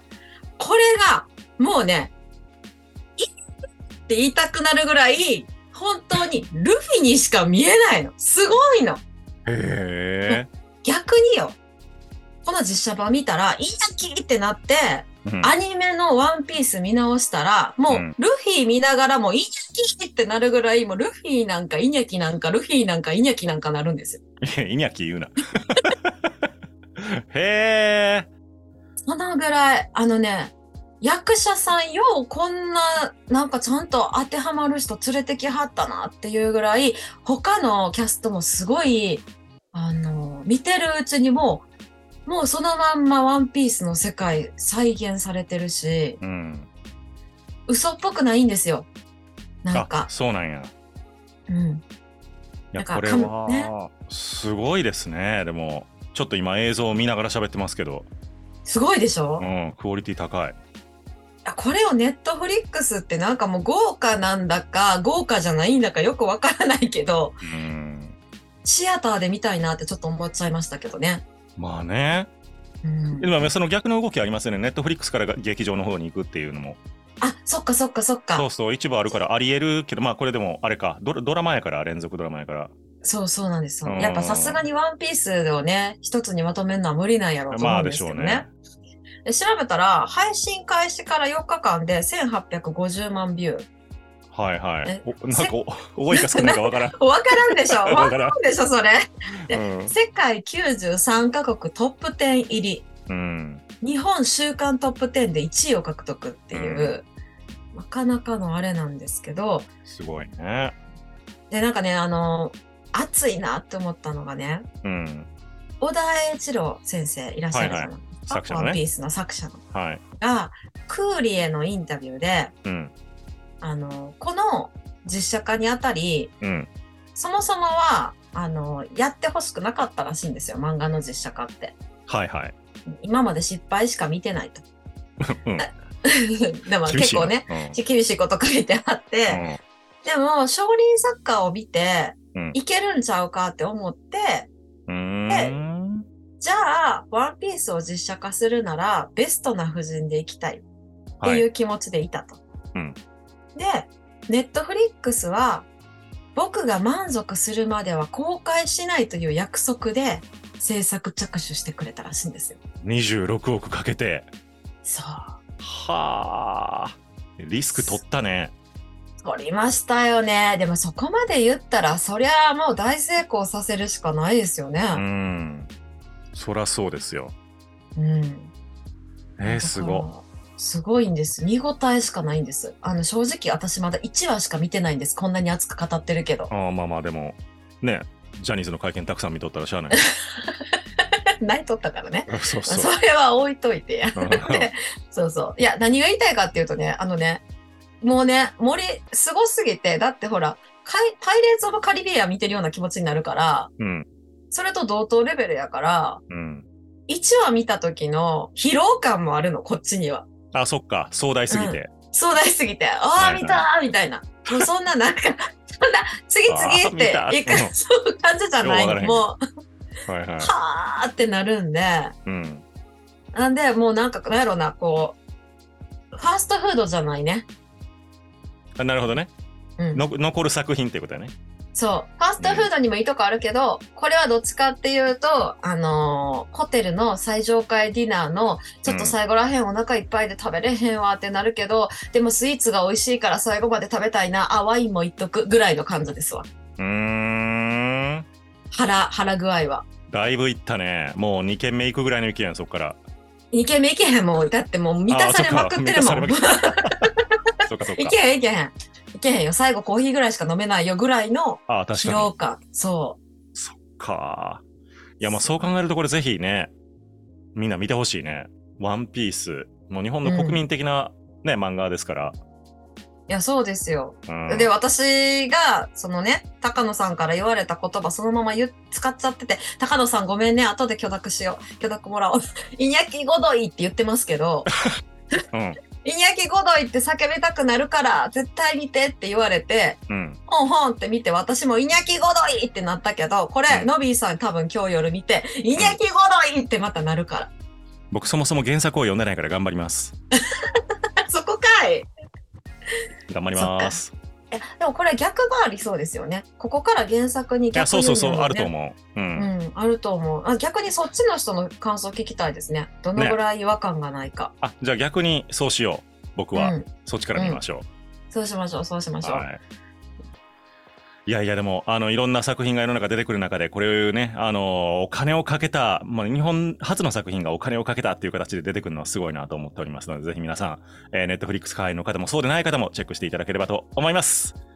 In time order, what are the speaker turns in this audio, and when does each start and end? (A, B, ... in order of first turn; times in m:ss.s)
0:00.6-0:02.1 A
0:04.1-0:09.0 A
0:09.4-0:10.5 B
0:10.3-0:11.6 A
0:12.4-0:24.2 A
0:15.2-0:15.5 B
0:17.9-0:18.2 B
0:24.4-0:26.1 B
0:27.0-0:28.3 B
0:29.0-0:41.6 A
0:42.2-0:46.2 A
0:46.2-0:46.7 B
0:47.7-0:48.9 A
0:49.6-0:50.1 A
0:49.7-0:50.7 B
0:51.5-0:51.8 A
0:52.7-0:58.1 B
0:52.8-0:53.7 A
0:58.6-0:59.4 A
0:59.4-1:00.6 B
1:01.4-1:07.4 A
1:07.4-1:08.2 B
1:08.6-1:11.2 A
1:11.6-1:12.3 B
1:12.8-1:13.5 A
1:13.2-1:16.8 B
1:17.2-1:18.5 A
1:18.3-1:22.7 B
1:23.0-1:28.5 A
1:23.8-1:24.6 B
1:27.5-1:28.5 B
1:29.2-1:33.7 A
1:34.3-1:38.4 B
1:34.8-1:35.6 A
1:36.1-1:42.9 A
1:39.5-1:39.9 B
1:43.1-1:43.6 B
1:43.8-1:47.0 A
1:46.5-1:46.9 B
1:47.7-1:49.7 A
1:49.8-1:50.7 B
1:51.5-1:54.6 A
1:54.8-1:55.3 B
1:55.8-1:59.6 A
1:57.5-1:58.8 B
1:59.7-2:00.0 B
2:00.2-2:02.5 A
2:02.6-2:02.9 B
2:03.6-2:06.3 A
2:06.4-2:06.7 B
2:07.2-2:11.8 A
2:12.1-2:12.5 B
2:13.0-2:14.6 A
2:15.2-2:15.7 B
2:16.0-2:19.4 A
2:16.8-2:17.8 B
2:19.3-2:19.6 B
2:20.0-2:24.5 A
2:24.9-2:26.0 B
2:25.3-2:25.6 A
2:26.4-2:30.6 A
2:31.2-2:32.4 A
2:33.5-2:35.7 A
2:36.3-2:42.6 A
2:42.8-2:44.3 B
2:44.8-2:45.4 A
2:45.6-2:48.5 B
2:47.7-2:48.0 A
2:49.2-2:55.0 A
2:54.9-2:55.7 B
2:56.3-2:57.3 B
2:58.0-2:58.5 A
2:59.4-3:00.1 B
2:59.4-3:06.5 A
3:06.5-3:10.0 B
3:09.9-3:17.4 A
3:12.3-3:12.9 B
3:14.2-3:14.7 B
3:18.0-3:23.7 A
3:23.8-3:24.1 B
3:24.5-3:26.2 A
3:26.3-3:26.6 B
3:27.1-3:30.2 A
3:30.5-3:31.9 B
3:31.5-3:39.4 A
3:33.2-3:33.6 B
3:36.5-3:37.7 B
3:38.6-3:39.2 B
3:40.1-3:40.5 B
3:40.4-3:42.1 A
3:42.2-3:42.6 B
3:43.3-3:45.2 A
3:46.1-3:47.5 A
3:48.8-3:49.3 B
3:49.8-3:50.0 A
3:49.9-3:51.3 B
3:51.7-4:06.5 A
3:52.4-3:52.7 B
3:58.8-3:59.2 B
4:06.8-4:08.2 B
4:08.7-4:09.8 A
4:10.1-4:13.0 B
4:13.5-4:17.2 A
4:15.1-4:17.1 B
4:17.6-4:18.1 B
4:18.0-4:23.2 A
4:21.7-4:22.3 B
4:23.5-4:24.6 B
4:25.2-4:26.7 B
4:27.5-4:32.4 B
4:30.2-4:30.6 A
4:33.3-4:44.7 A
4:34.3-4:34.7 B
4:45.5-4:45.8 B
4:46.0-4:57.5 A
4:50.1-4:50.4 B
4:58.1-5:00.1 B
5:00.6-5:02.1 A
5:03.3-5:04.1 B
5:03.6-5:04.0 A
5:04.5-5:08.7 A
5:07.7-5:09.5 B
5:09.4-5:14.5 A
5:14.6-5:17.8 B
5:16.5-5:17.6 A
5:18.3-5:19.4 A
5:19.2-5:19.6 B
5:21.3-5:34.6 B